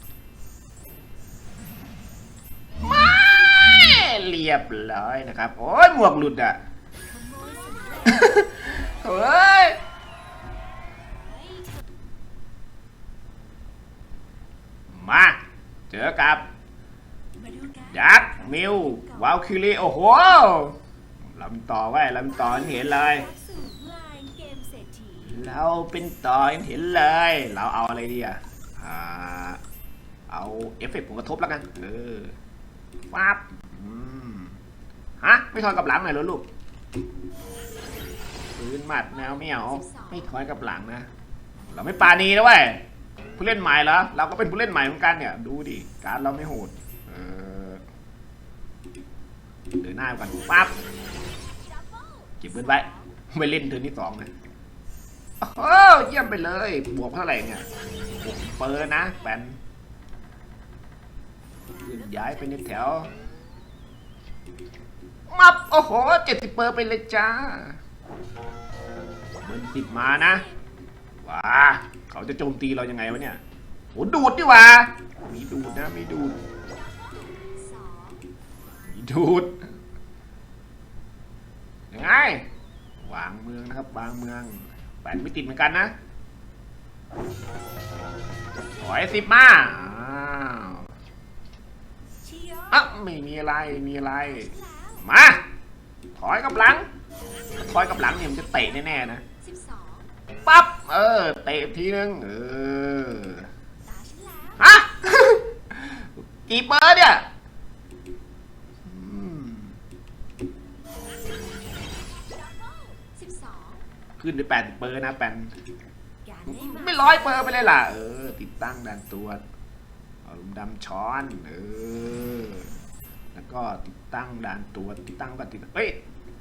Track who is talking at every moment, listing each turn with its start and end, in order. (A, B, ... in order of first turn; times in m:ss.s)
0:02.8-0:06.6 A
0:07.1-0:08.4 B
0:08.0-0:09.8 A
0:14.9-0:15.4 A
0:15.9-0:16.5 A
0:17.4-0:18.4 B
0:17.8-0:20.8 A
0:21.3-0:23.3 A
0:22.5-0:25.3 B
0:25.2-0:29.6 A
0:30.3-0:32.3 A
0:33.1-0:34.6 A
0:35.2-0:36.4 A
0:38.6-0:41.1 A
0:39.5-0:40.1 B
0:41.7-0:42.8 A
0:43.4-0:47.8 A
0:49.7-0:50.7 A
0:51.7-0:53.0 B
0:52.4-0:54.3 A
0:55.4-0:57.6 A
0:58.2-0:59.6 A
1:01.8-1:03.1 A
1:05.3-1:07.8 A
1:09.4-1:10.4 A
1:11.2-1:13.4 A
1:13.9-1:16.4 A
1:16.8-1:18.2 B
1:18.9-1:19.6 A
1:21.9-1:22.4 A
1:23.0-1:25.9 A
1:28.8-1:30.9 A
1:32.2-1:32.8 B
1:32.7-1:35.4 A
1:34.4-1:35.0 B
1:36.2-1:36.9 A
1:37.6-1:39.2 A
1:39.4-1:40.1 B
1:40.4-1:43.5 A
1:43.9-1:44.6 B
1:44.6-1:47.2 A
1:48.8-1:49.8 A
1:52.3-1:53.8 B
1:54.2-1:55.5 A
1:56.3-1:57.1 B
1:56.4-1:59.4 A
2:00.2-2:02.7 A
2:03.3-2:06.0 A